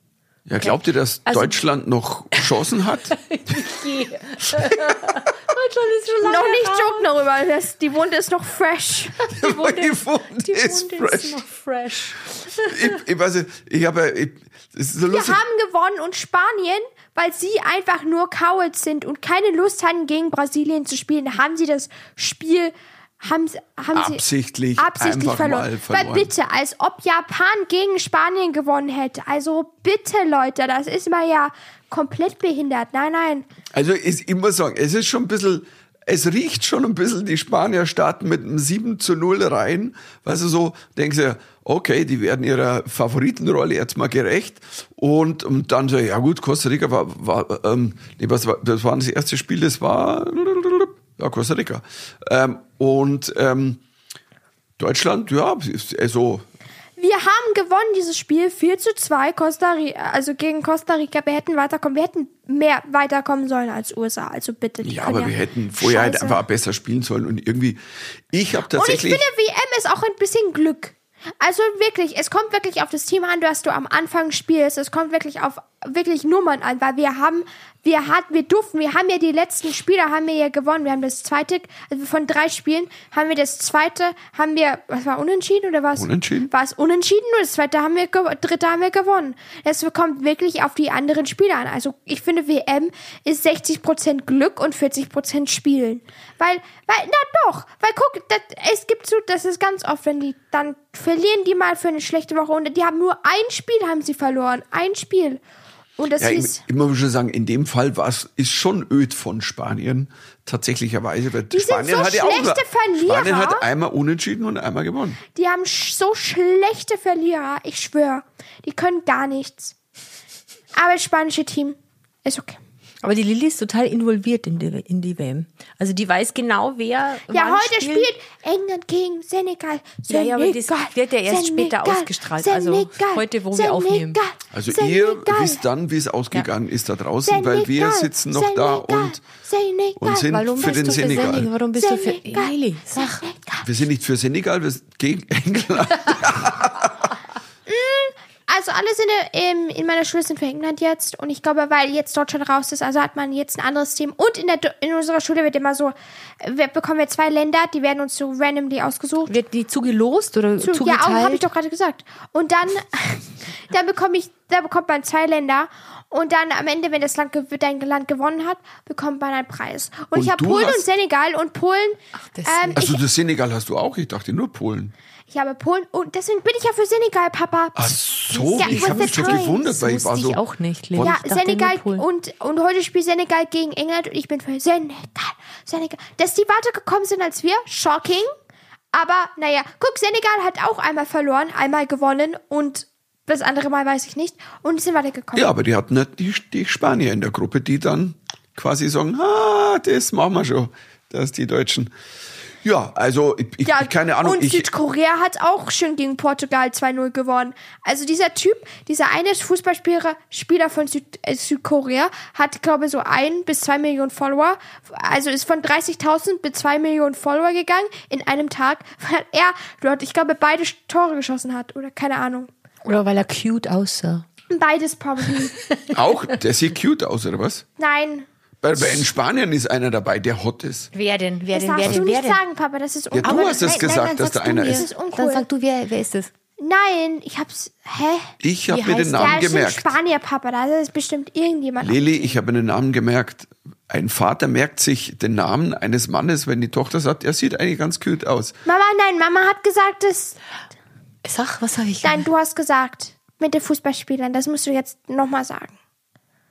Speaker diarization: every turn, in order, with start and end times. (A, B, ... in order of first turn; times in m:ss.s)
0:00.5-0:03.2 A
0:00.6-0:01.6 B
0:03.1-0:07.1 B
0:04.5-0:05.2 A
0:06.2-0:09.2 C
0:09.2-0:13.0 B
0:09.3-0:11.4 A
0:12.6-0:15.4 A
0:15.1-0:24.2 C
0:23.9-0:26.3 A
0:24.8-0:33.4 C
0:33.7-0:53.8 A
0:54.8-0:56.4 A
0:57.0-1:06.4 C
1:04.8-1:07.8 A
1:08.3-1:09.2 A
1:08.7-1:45.4 C
1:26.0-1:26.5 A
1:46.0-1:46.6 C
1:46.2-1:55.2 A
1:51.5-1:53.6 C
1:55.3-1:59.7 C
2:00.7-2:02.6 C
2:03.0-2:08.1 B
2:07.3-2:15.6 C
2:10.1-2:14.2 B
2:14.5-2:19.2 A
2:17.2-2:23.6 C
2:20.0-2:21.5 A
2:20.2-2:23.2 B
2:23.6-2:27.1 A
2:27.7-2:39.3 C
2:39.3-2:41.4 B
2:40.6-2:53.0 C
2:50.1-2:50.8 A
2:52.2-2:52.8 B
2:52.7-2:54.9 A
2:55.3-2:59.6 C
2:57.7-3:00.4 A
2:58.4-3:02.0 B
3:01.0-3:08.3 C
3:08.9-3:15.5 C
3:15.3-3:21.9 A
3:22.6-3:24.7 A
3:23.6-3:42.5 C
3:42.8-3:44.2 B
3:44.5-3:45.6 C
3:45.3-3:46.2 B
3:45.9-3:47.6 A
3:47.8-3:48.3 C
3:48.6-3:50.9 A
3:50.9-3:52.4 B
3:51.5-3:55.4 C
3:53.1-3:54.9 A
3:53.2-3:56.3 B
3:56.6-3:58.3 C
3:58.4-3:59.9 A
3:58.7-3:59.5 B
3:59.1-4:02.3 C
4:01.8-4:08.5 A
4:08.6-4:10.4 C
4:11.2-4:12.3 B
4:12.0-4:15.7 C